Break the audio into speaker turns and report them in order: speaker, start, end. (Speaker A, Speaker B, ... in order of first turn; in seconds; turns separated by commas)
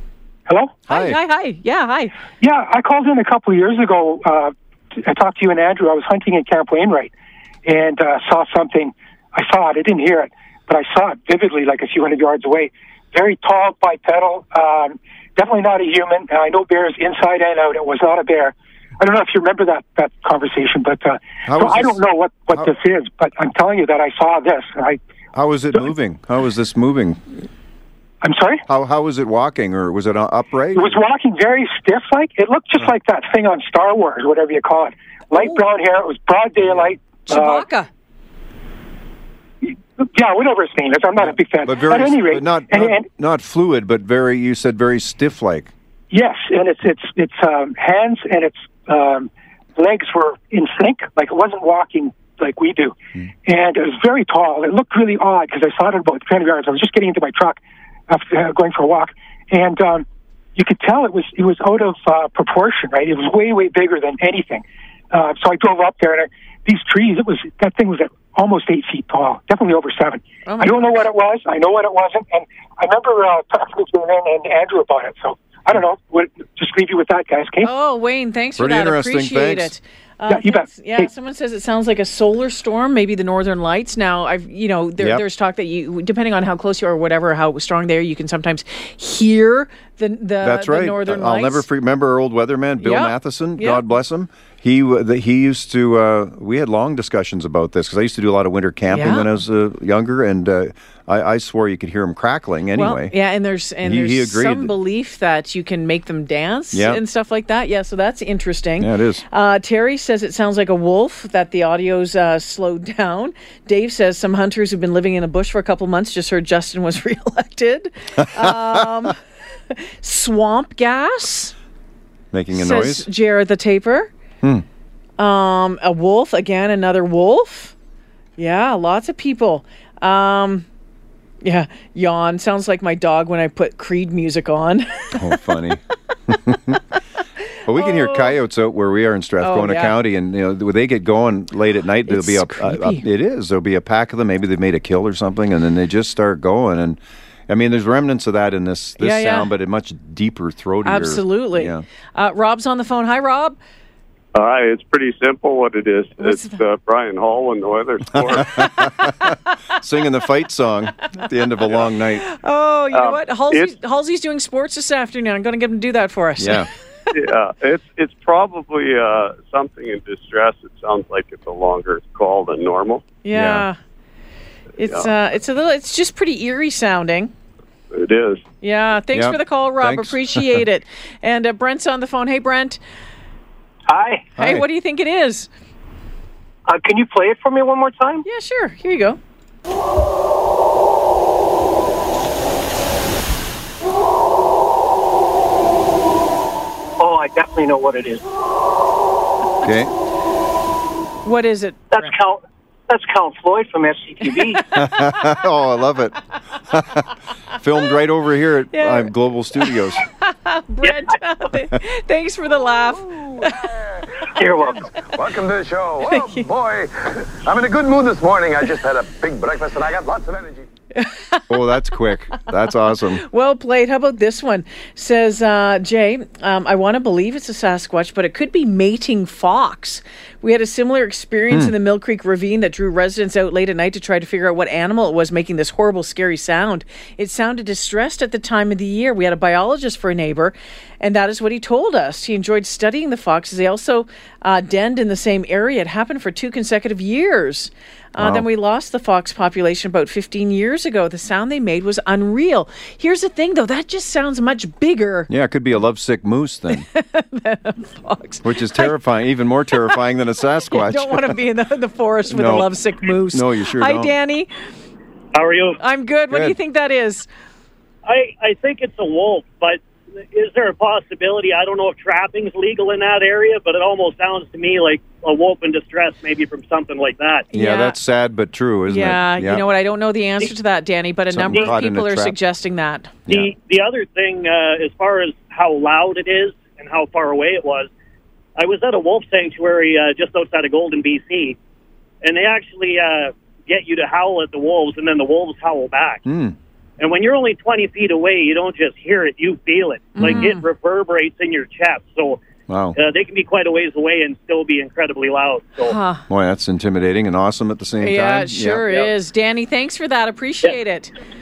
Speaker A: 0.5-0.8, Speaker B: 0.9-2.1, Speaker C: 0.9-1.2, Speaker A: 2.4-7.1, Speaker A: 7.6-25.0, Speaker C: 21.4-21.9, Speaker C: 25.3-27.4, Speaker A: 28.2-28.6, Speaker C: 28.7-30.9, Speaker A: 30.7-37.7, Speaker B: 35.3-35.6, Speaker B: 37.2-37.9, Speaker A: 39.6-43.0, Speaker C: 41.6-45.7, Speaker A: 46.1-52.9, Speaker A: 53.4-60.0, Speaker A: 60.5-77.7, Speaker B: 70.4-71.0, Speaker B: 77.6-91.6, Speaker C: 78.6-79.7, Speaker A: 80.3-81.1, Speaker C: 85.0-85.2, Speaker C: 90.4-103.1, Speaker B: 92.8-93.8, Speaker B: 98.9-99.3, Speaker B: 102.8-119.2, Speaker C: 103.8-104.7, Speaker C: 106.7-107.0, Speaker C: 108.8-109.2, Speaker B: 119.7-121.5, Speaker C: 122.3-123.1, Speaker B: 122.5-124.1, Speaker B: 125.2-127.7, Speaker B: 128.4-130.7, Speaker B: 131.4-135.5, Speaker C: 135.2-136.8, Speaker C: 137.6-151.8, Speaker B: 137.8-138.4, Speaker B: 139.4-140.0, Speaker B: 142.1-143.0, Speaker B: 149.0-149.5, Speaker B: 150.8-153.6, Speaker D: 154.3-158.9, Speaker B: 156.2-156.6, Speaker C: 158.6-162.2, Speaker B: 162.2-166.7, Speaker D: 162.9-163.7, Speaker C: 166.4-166.7, Speaker D: 167.1-173.0, Speaker B: 173.2-173.8, Speaker C: 173.3-173.7, Speaker B: 174.8-177.3, Speaker D: 174.8-175.1, Speaker D: 177.9-178.4, Speaker B: 178.6-182.8, Speaker C: 179.1-180.6, Speaker E: 183.9-184.3, Speaker B: 184.3-185.5, Speaker C: 184.4-184.6, Speaker E: 186.7-188.2, Speaker B: 188.2-189.2, Speaker E: 197.0-198.2, Speaker C: 199.6-199.9, Speaker B: 201.2-202.1, Speaker E: 201.9-204.6, Speaker C: 204.7-206.2, Speaker C: 206.7-210.0, Speaker B: 208.7-209.1, Speaker B: 210.2-213.5, Speaker F: 213.4-220.7, Speaker E: 214.4-214.9, Speaker B: 216.1-216.5, Speaker B: 221.0-221.4, Speaker C: 221.5-223.2, Speaker B: 223.2-255.3, Speaker C: 248.2-248.4, Speaker C: 255.3-256.9, Speaker B: 256.7-258.9, Speaker C: 258.4-261.3, Speaker B: 259.7-260.0, Speaker B: 260.6-264.5, Speaker C: 262.3-262.7, Speaker C: 263.3-264.1, Speaker G: 265.3-265.8, Speaker B: 265.8-267.3, Speaker C: 266.3-266.6, Speaker G: 268.0-269.8, Speaker G: 270.3-277.4, Speaker B: 277.5-277.9, Speaker C: 277.5-279.6, Speaker B: 278.9-283.1, Speaker C: 281.3-282.4, Speaker G: 283.3-287.9, Speaker G: 288.6-291.6, Speaker G: 292.2-296.2, Speaker C: 296.2-296.6, Speaker G: 297.0-302.4, Speaker B: 300.1-300.6, Speaker C: 302.7-303.0, Speaker G: 302.9-306.0, Speaker B: 305.8-306.2, Speaker C: 306.3-308.8, Speaker B: 308.0-311.1